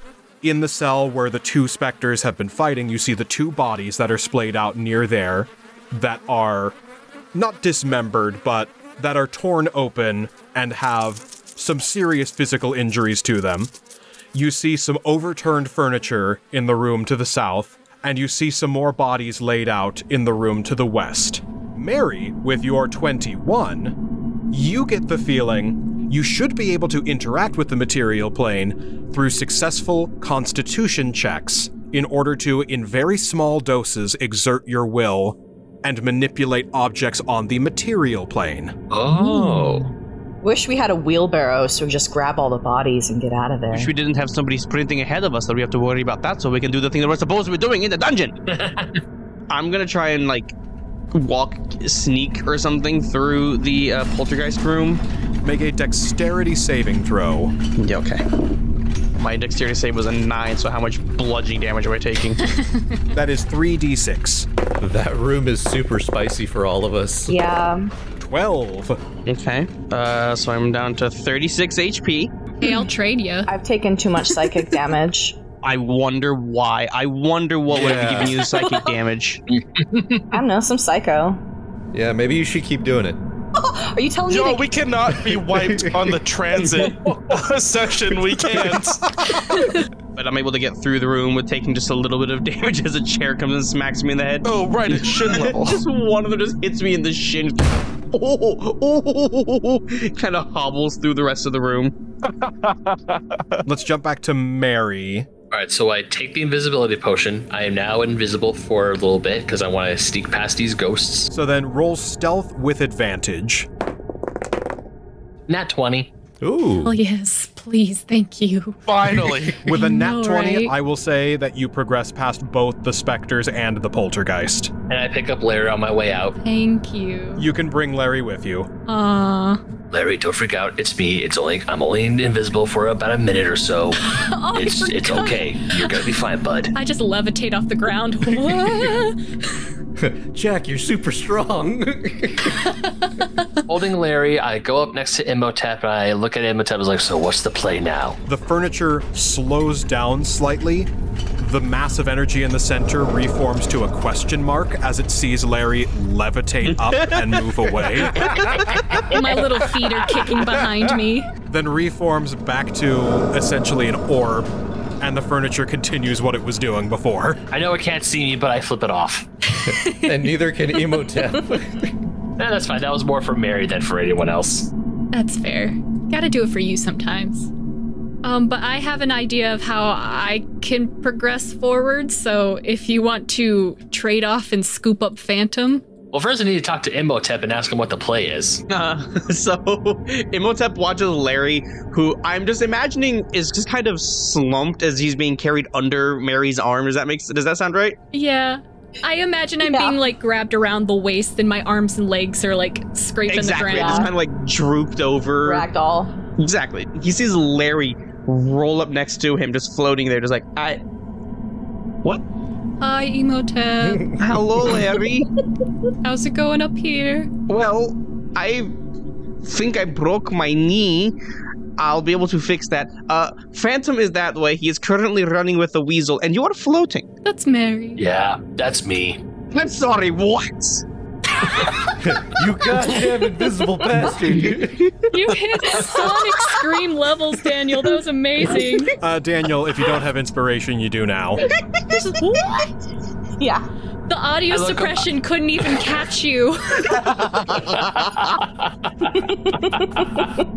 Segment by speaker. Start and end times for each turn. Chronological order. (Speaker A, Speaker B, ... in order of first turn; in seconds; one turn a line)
Speaker A: 0.4-6.8
Speaker A: 7.3-13.7
Speaker A: 14.3-23.9
Speaker A: 24.5-38.7
Speaker B: 38.9-39.9
Speaker C: 40.4-43.9
Speaker D: 43.7-48.4
Speaker B: 48.5-49.0
Speaker D: 49.5-50.5
Speaker D: 51.1-55.0
Speaker A: 55.4-57.5
Speaker D: 57.8-58.2
Speaker D: 59.1-62.4
Speaker E: 62.5-63.0
Speaker A: 63.1-64.5
Speaker F: 64.8-67.4
Speaker C: 67.3-67.9
Speaker A: 68.2-69.0
Speaker D: 69.2-72.3
Speaker E: 72.6-73.5
Speaker C: 73.5-75.4
Speaker D: 75.6-79.4
Speaker F: 77.7-78.4
Speaker C: 78.5-78.9
Speaker B: 79.5-80.2
Speaker C: 80.3-81.4
Speaker F: 81.9-83.2
Speaker C: 83.6-84.7
Speaker G: 84.3-89.1
Speaker F: 85.2-86.1
Speaker E: 89.4-89.8
Speaker D: 90.1-101.9
Speaker G: 94.4-95.8
Speaker G: 102.2-103.7
Speaker A: 103.7-105.3
Speaker B: 105.5-111.3
Speaker A: 111.3-113.7
Speaker B: 115.5-116.1
Speaker F: 116.4-116.9
Speaker E: 116.8-118.8
Speaker G: 118.9-119.6
Speaker A: 119.6-124.7
Speaker E: 119.7-120.7
Speaker B: 124.9-126.3
Speaker E: 126.4-127.5
Speaker A: 127.3-128.7
Speaker E: 128.9-129.6
Speaker B: 129.9-134.0
Speaker E: 134.0-136.1
Speaker B: 134.5-136.7
Speaker E: 136.7-139.2
Speaker F: 138.3-138.9
Speaker F: 140.0-142.6
Speaker E: 142.6-143.5
Speaker B: 143.7-148.2
Speaker A: 148.3-158.3
Speaker D: 156.6-157.9
Speaker F: 158.1-158.6
Speaker B: 158.7-159.0
Speaker E: 159.0-161.3
Speaker F: 160.6-160.9
Speaker A: 161.5-167.4
Speaker B: 167.5-169.3
Speaker E: 169.5-171.3
Speaker F: 169.7-171.9
Speaker B: 172.4-174.7
Speaker E: 175.1-177.5
Speaker E: 178.2-185.8
Speaker B: 186.1-188.6
Speaker D: 188.7-198.0
Speaker E: 198.1-204.1
Speaker C: 199.7-200.0
Speaker D: 203.3-205.7
Speaker C: 203.6-204.1
Speaker C: 205.4-206.2
Speaker D: 206.4-210.8
Speaker E: 212.8-214.1
Speaker F: 213.8-214.4
Speaker D: 214.2-215.3
Speaker E: 216.0-217.3
Speaker D: 217.5-218.7
Speaker D: 219.4-221.1
Speaker D: 221.8-227.1
Speaker E: 227.2-228.0
Speaker B: 228.0-229.2
Speaker D: 229.5-230.8
Speaker D: 231.4-231.9
Speaker F: 232.0-234.9
Speaker D: 234.5-234.9
Speaker E: 235.1-238.9
Speaker A: 239.0-241.4
Speaker E: 241.9-242.6
Speaker C: 243.4-243.6
Speaker E: 244.1-247.3
Speaker B: 244.5-245.0
Speaker B: 247.3-249.1
Speaker C: 249.2-250.1
Speaker B: 249.8-250.3